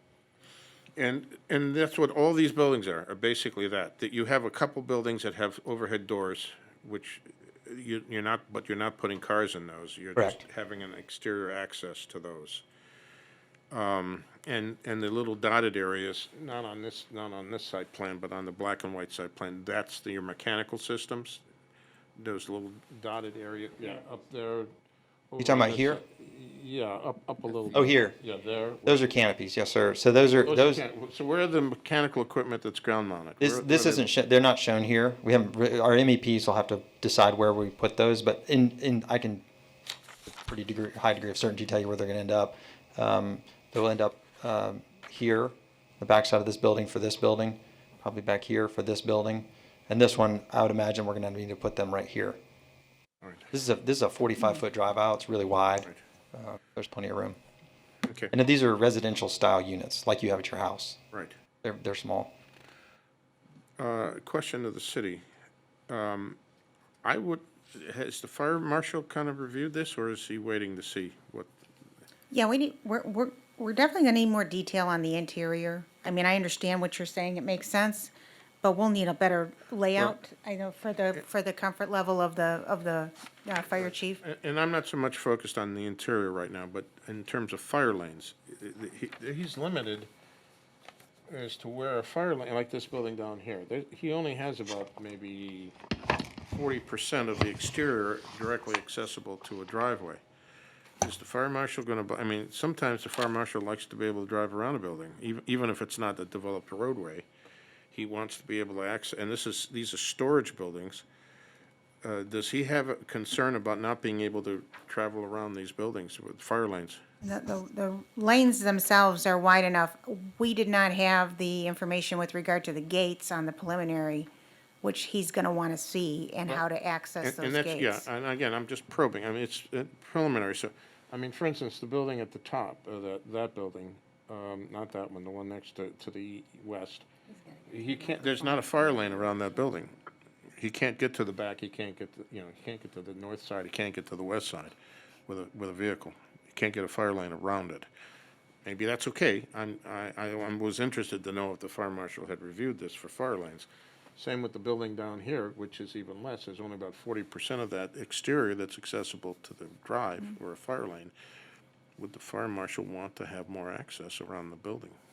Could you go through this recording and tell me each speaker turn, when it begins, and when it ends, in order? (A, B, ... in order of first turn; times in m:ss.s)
0:01.0-0:12.6 A
0:10.2-0:10.4 B
0:13.7-0:21.4 A
0:22.2-0:24.7 A
0:25.3-0:29.2 A
0:25.4-0:26.0 B
0:27.7-0:28.2 B
0:28.9-0:30.8 B
0:30.4-0:34.1 A
0:33.4-0:39.4 B
0:40.3-0:52.4 B
0:53.2-0:53.5 A
0:53.5-0:57.4 B
0:58.0-0:58.3 A
0:58.3-1:01.0 B
1:01.6-1:02.3 B
1:03.8-1:05.2 A
1:05.9-1:06.4 A
1:07.0-1:11.5 A
1:12.3-1:24.2 C
1:23.8-1:30.1 A
1:31.3-1:35.8 A
1:36.5-1:40.2 A
1:41.0-1:47.3 A
1:47.9-1:51.0 A
1:52.0-1:57.0 A
1:57.2-2:04.3 C
2:04.8-2:08.0 C
2:07.2-2:17.1 A
2:17.7-2:19.9 A
2:20.6-2:24.7 A
2:25.3-2:27.9 A
2:28.6-2:41.1 A
2:42.0-2:45.0 A